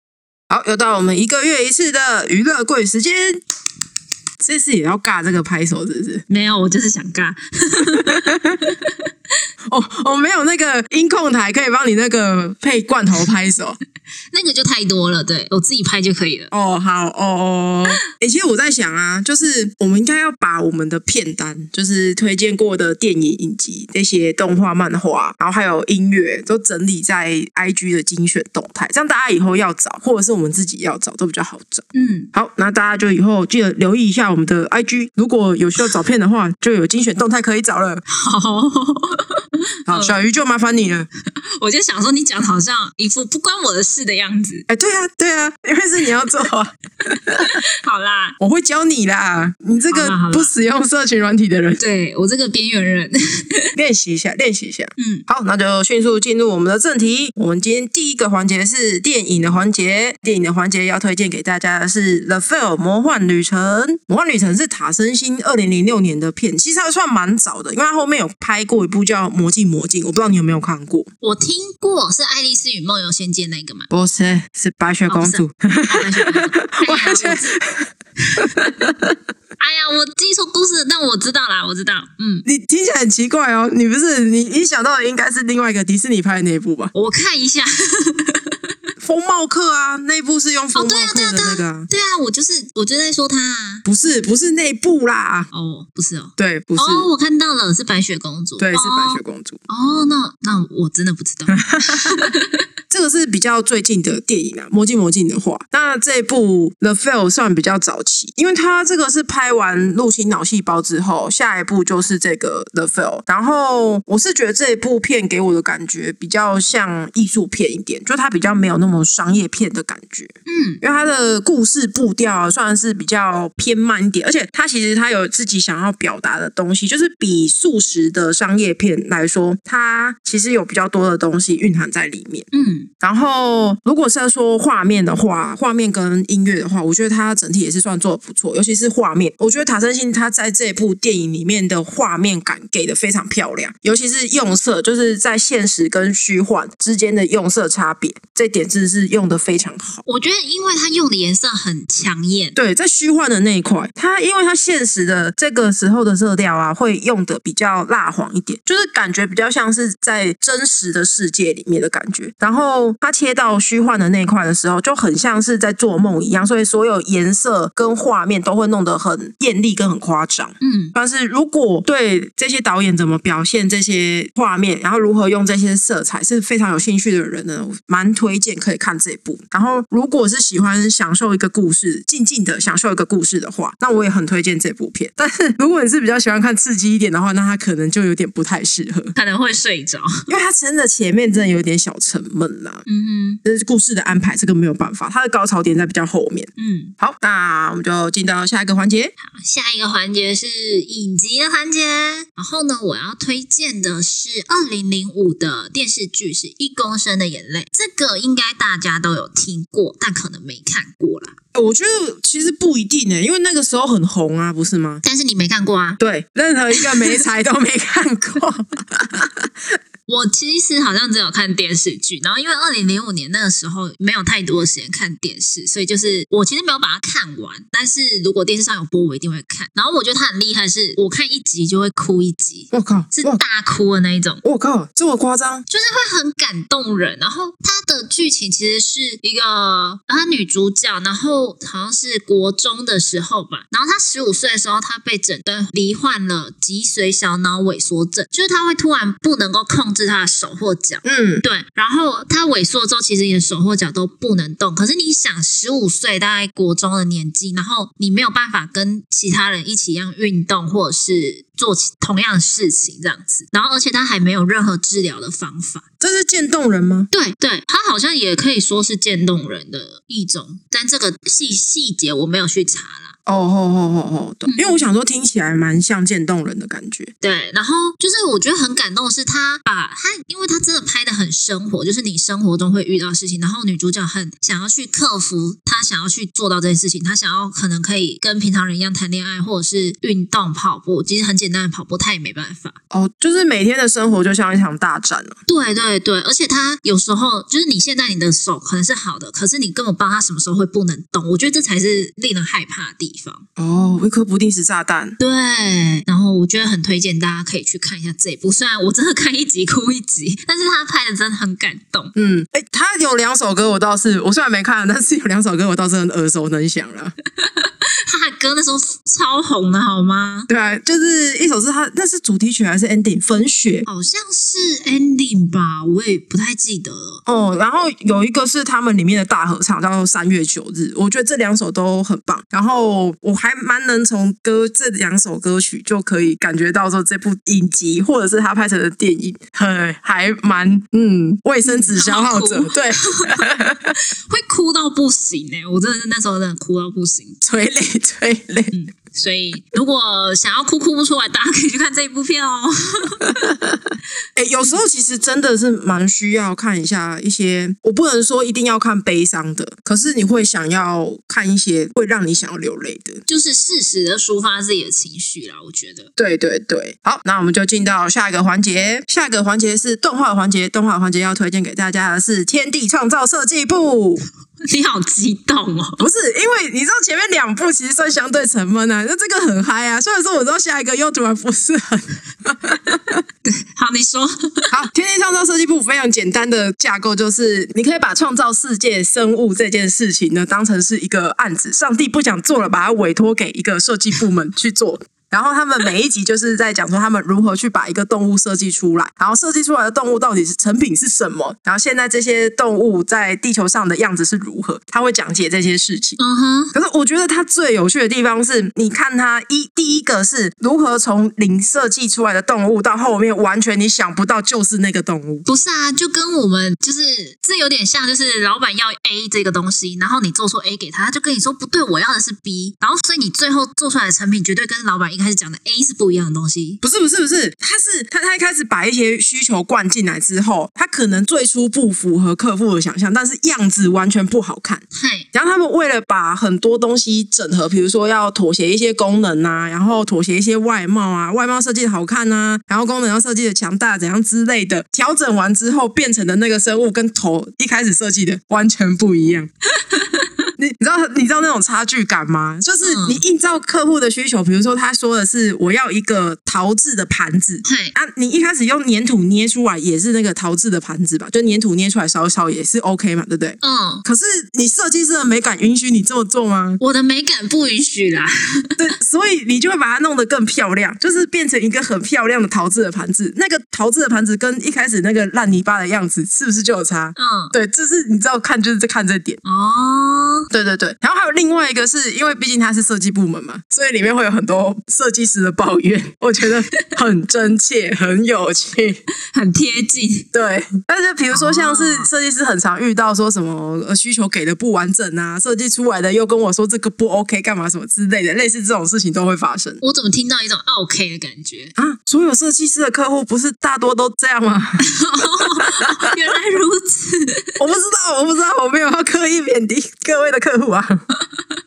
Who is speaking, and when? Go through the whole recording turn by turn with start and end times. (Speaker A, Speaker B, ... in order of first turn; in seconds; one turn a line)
Speaker A: 0.5-3.4
Speaker A: 4.4-6.2
Speaker B: 6.3-8.9
Speaker A: 8.0-8.6
Speaker A: 9.7-13.8
Speaker B: 14.3-16.5
Speaker A: 16.5-38.0
Speaker B: 31.9-32.3
Speaker B: 38.1-40.2
Speaker A: 39.9-41.1
Speaker B: 41.5-44.6
Speaker A: 44.7-47.5
Speaker B: 47.4-48.4
Speaker A: 48.4-51.8
Speaker B: 49.9-50.5
Speaker B: 51.8-53.7
Speaker A: 53.8-71.1
Speaker B: 55.0-55.2
Speaker B: 71.2-73.9
Speaker A: 73.9-77.9
Speaker B: 75.1-77.5
Speaker A: 78.4-78.9
Speaker B: 79.6-82.4
Speaker A: 82.4-86.9
Speaker B: 86.9-88.6
Speaker A: 89.0-91.9
Speaker B: 90.7-93.8
Speaker A: 93.8-95.5
Speaker B: 95.5-102.5
Speaker A: 96.4-97.1
Speaker A: 98.6-99.6
Speaker A: 101.5-102.3
Speaker A: 102.9-132.5
Speaker B: 120.5-120.8
Speaker B: 132.5-132.9
Speaker A: 133.0-150.0
Speaker B: 150.1-152.6
Speaker A: 152.6-189.1
Speaker B: 170.6-170.9
Speaker B: 189.1-190.3
Speaker A: 190.3-192.8
Speaker B: 192.8-193.4
Speaker A: 193.4-199.1
Speaker B: 196.6-196.9
Speaker B: 199.2-211.3
Speaker A: 211.5-215.0
Speaker B: 215.0-216.0
Speaker A: 216.0-219.5
Speaker B: 216.7-217.2
Speaker B: 220.1-234.4
Speaker A: 232.7-233.4
Speaker A: 234.4-235.7
Speaker B: 235.7-265.8
Speaker A: 251.0-251.4
Speaker A: 266.0-267.1
Speaker B: 267.1-273.1
Speaker A: 273.2-277.1
Speaker B: 274.5-274.8
Speaker B: 277.2-292.8
Speaker A: 292.9-295.4
Speaker B: 295.5-303.4
Speaker A: 303.6-305.2
Speaker B: 305.2-312.1
Speaker A: 312.1-317.1
Speaker B: 317.4-320.5
Speaker A: 320.5-323.9
Speaker B: 323.9-327.2
Speaker A: 327.2-343.9
Speaker B: 341.6-343.4
Speaker B: 344.3-347.4
Speaker A: 347.4-348.7
Speaker B: 348.7-353.3
Speaker A: 353.4-353.8
Speaker A: 354.4-363.2
Speaker B: 363.3-366.1
Speaker A: 366.2-374.2
Speaker B: 374.6-376.0
Speaker A: 376.0-383.2
Speaker B: 383.4-384.7
Speaker A: 384.7-406.2
Speaker B: 406.2-406.7
Speaker A: 406.7-415.4
Speaker B: 415.4-426.8
Speaker A: 426.8-434.8
Speaker B: 434.9-435.3
Speaker A: 435.3-449.5
Speaker B: 449.9-450.3
Speaker A: 450.6-466.8
Speaker B: 452.8-453.2
Speaker B: 457.6-457.9
Speaker B: 463.6-464.0
Speaker B: 466.8-468.8
Speaker A: 468.8-479.4
Speaker B: 477.1-477.5
Speaker B: 479.4-480.5
Speaker A: 480.5-489.0
Speaker B: 489.3-490.3
Speaker A: 490.3-499.8
Speaker B: 491.3-492.1
Speaker B: 499.8-501.7
Speaker A: 501.8-506.1
Speaker B: 504.8-507.6
Speaker A: 507.6-511.0